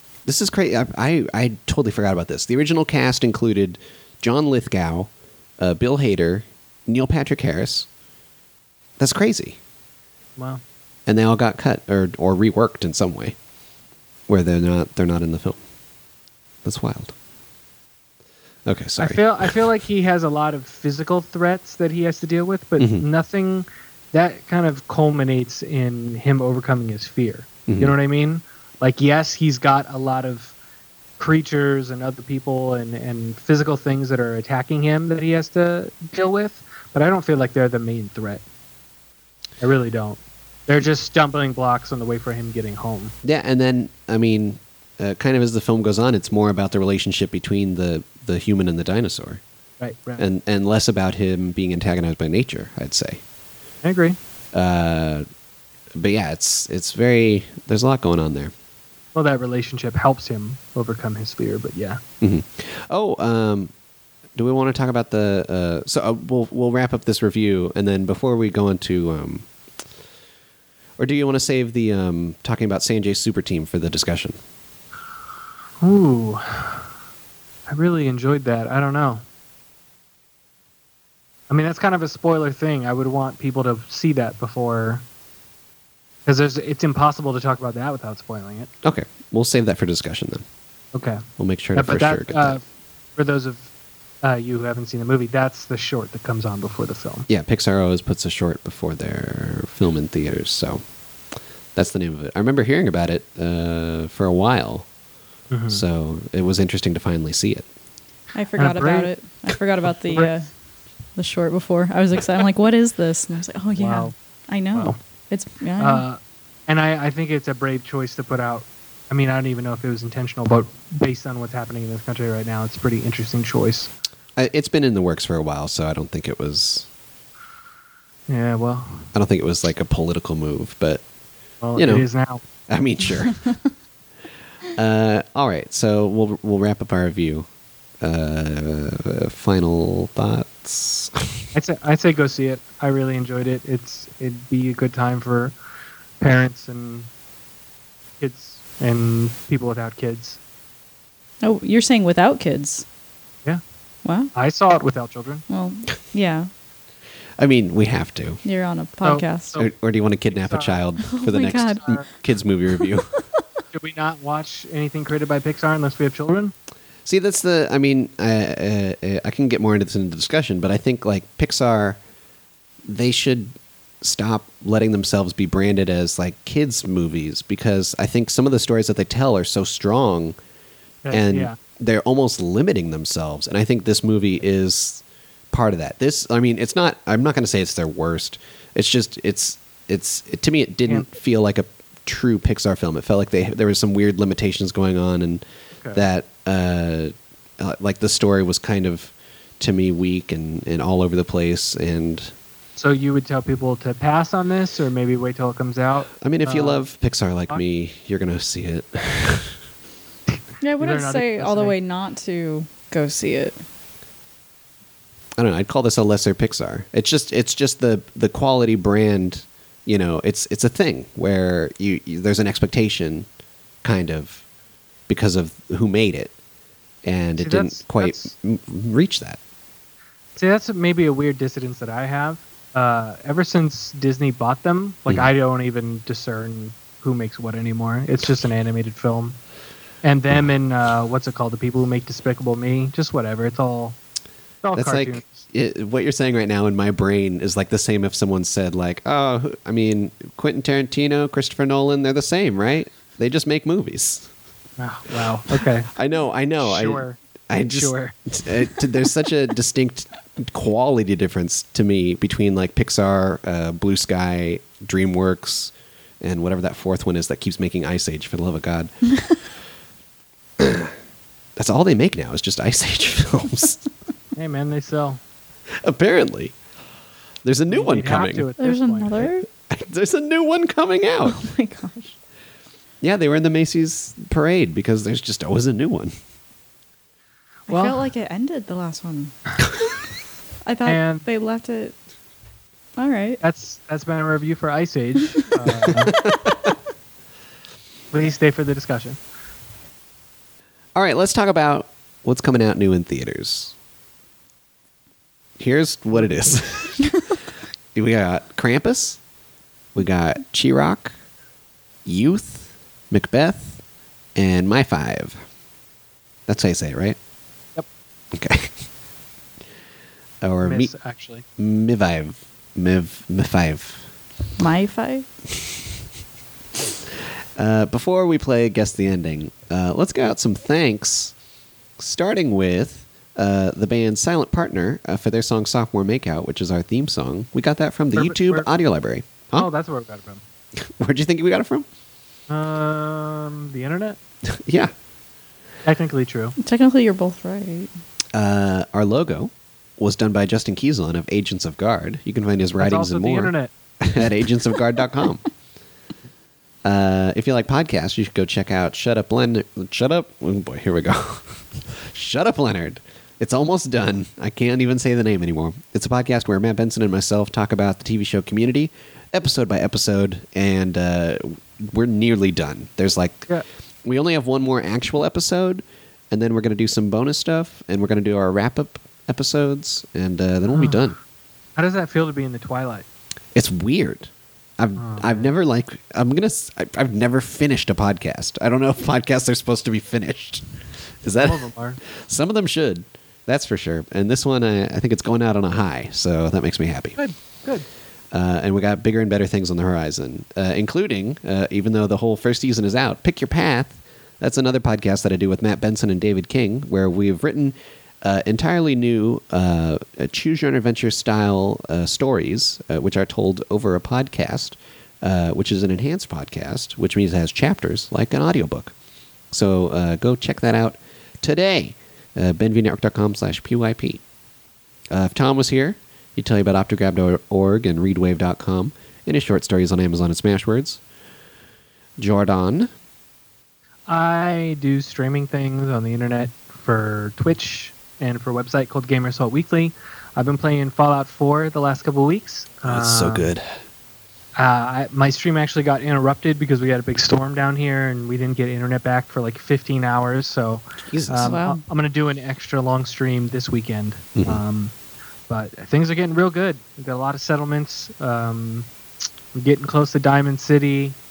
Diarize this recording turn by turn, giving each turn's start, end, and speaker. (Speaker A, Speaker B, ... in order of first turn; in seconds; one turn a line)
Speaker A: 0.2-7.9
Speaker A: 9.0-9.6
Speaker B: 10.4-10.6
Speaker A: 11.1-13.3
Speaker A: 14.3-15.6
Speaker A: 16.6-17.1
Speaker A: 18.6-19.5
Speaker B: 19.0-30.5
Speaker A: 22.8-23.0
Speaker A: 27.7-27.9
Speaker B: 31.2-38.4
Speaker B: 39.6-43.1
Speaker A: 43.2-49.4
Speaker B: 49.8-50.2
Speaker A: 50.2-53.2
Speaker B: 53.8-54.2
Speaker A: 54.5-55.2
Speaker A: 56.0-58.5
Speaker B: 59.1-62.0
Speaker A: 62.2-63.7
Speaker A: 64.3-69.5
Speaker A: 71.0-74.4
Speaker B: 75.8-76.8
Speaker B: 77.7-79.2
Speaker B: 81.5-85.0
Speaker B: 86.2-88.7
Speaker A: 88.8-90.4
Speaker B: 90.9-91.2
Speaker A: 91.4-92.6
Speaker B: 91.7-92.6
Speaker B: 93.2-93.7
Speaker B: 94.2-97.3
Speaker A: 97.3-100.8
Speaker A: 101.7-104.9
Speaker B: 105.5-105.8
Speaker A: 105.7-107.7
Speaker C: 108.3-110.5
Speaker B: 108.5-109.1
Speaker B: 110.0-110.3
Speaker C: 111.2-116.0
Speaker B: 113.8-114.1
Speaker B: 115.8-123.9
Speaker A: 124.3-126.9
Speaker B: 128.3-129.1
Speaker A: 129.1-131.0
Speaker B: 131.6-132.4
Speaker A: 131.8-132.1
Speaker A: 132.7-133.4
Speaker A: 134.8-137.5
Speaker A: 138.0-141.4
Speaker B: 141.5-145.5
Speaker B: 146.2-147.1
Speaker B: 148.2-150.4
Speaker C: 151.4-152.8
Speaker C: 154.0-154.3
Speaker B: 154.3-155.4
Speaker C: 155.5-156.5
Speaker A: 157.4-158.4
Speaker C: 158.4-159.6
Speaker B: 159.0-159.7
Speaker A: 159.6-163.1
Speaker B: 160.3-160.8
Speaker C: 161.0-162.0
Speaker B: 163.7-166.5
Speaker A: 167.0-172.0
Speaker A: 172.8-180.4
Speaker B: 181.0-181.6
Speaker A: 181.1-202.3
Speaker B: 202.8-206.8
Speaker A: 206.2-209.6
Speaker C: 210.6-213.6
Speaker B: 210.8-211.8
Speaker A: 215.4-223.3
Speaker A: 223.8-224.4
Speaker A: 225.1-226.3
Speaker A: 227.0-229.4
Speaker B: 227.4-228.3
Speaker B: 230.3-239.4
Speaker B: 240.0-244.0
Speaker B: 244.6-245.4
Speaker A: 244.7-254.3
Speaker B: 254.8-255.9
Speaker A: 255.9-268.9
Speaker B: 256.6-258.1
Speaker A: 270.6-270.9
Speaker A: 271.6-273.8
Speaker B: 274.4-275.2
Speaker A: 275.8-276.5
Speaker A: 277.4-278.5
Speaker B: 277.7-279.3
Speaker C: 278.6-279.5
Speaker A: 279.7-281.4
Speaker C: 281.3-282.1
Speaker A: 283.0-286.1
Speaker B: 287.7-288.1
Speaker C: 287.7-289.3
Speaker C: 290.6-291.9
Speaker B: 290.9-291.2
Speaker C: 293.0-293.4
Speaker B: 293.4-296.1
Speaker A: 295.9-296.5
Speaker B: 298.1-299.2
Speaker A: 300.9-303.7
Speaker A: 305.6-307.0
Speaker A: 307.9-309.2
Speaker A: 309.9-311.1
Speaker A: 312.0-313.8
Speaker A: 314.4-315.4
Speaker A: 316.5-317.2
Speaker A: 318.3-318.8
Speaker A: 320.4-320.9
Speaker B: 320.6-321.4
Speaker A: 321.6-324.1
Speaker C: 324.6-325.3
Speaker A: 327.6-331.3
Speaker A: 332.0-339.7
Speaker B: 338.1-338.7
Speaker B: 339.5-340.4
Speaker A: 340.8-341.9
Speaker B: 342.5-344.2
Speaker A: 344.4-344.9
Speaker B: 345.8-346.5
Speaker C: 346.6-347.9
Speaker A: 348.3-355.4
Speaker B: 352.8-353.7
Speaker A: 356.8-373.5
Speaker A: 374.0-381.2
Speaker B: 380.7-381.1
Speaker B: 381.8-383.1
Speaker A: 383.5-390.6
Speaker B: 385.0-385.5
Speaker A: 391.2-397.2
Speaker B: 391.4-392.0
Speaker B: 397.2-397.9
Speaker A: 398.3-418.9
Speaker A: 419.5-424.2
Speaker A: 425.1-431.0
Speaker A: 432.2-432.9
Speaker B: 434.1-443.5
Speaker A: 442.8-443.6
Speaker B: 444.6-454.9
Speaker A: 451.1-451.6
Speaker C: 451.4-451.8
Speaker A: 454.4-454.6
Speaker B: 455.5-458.9
Speaker B: 459.5-461.1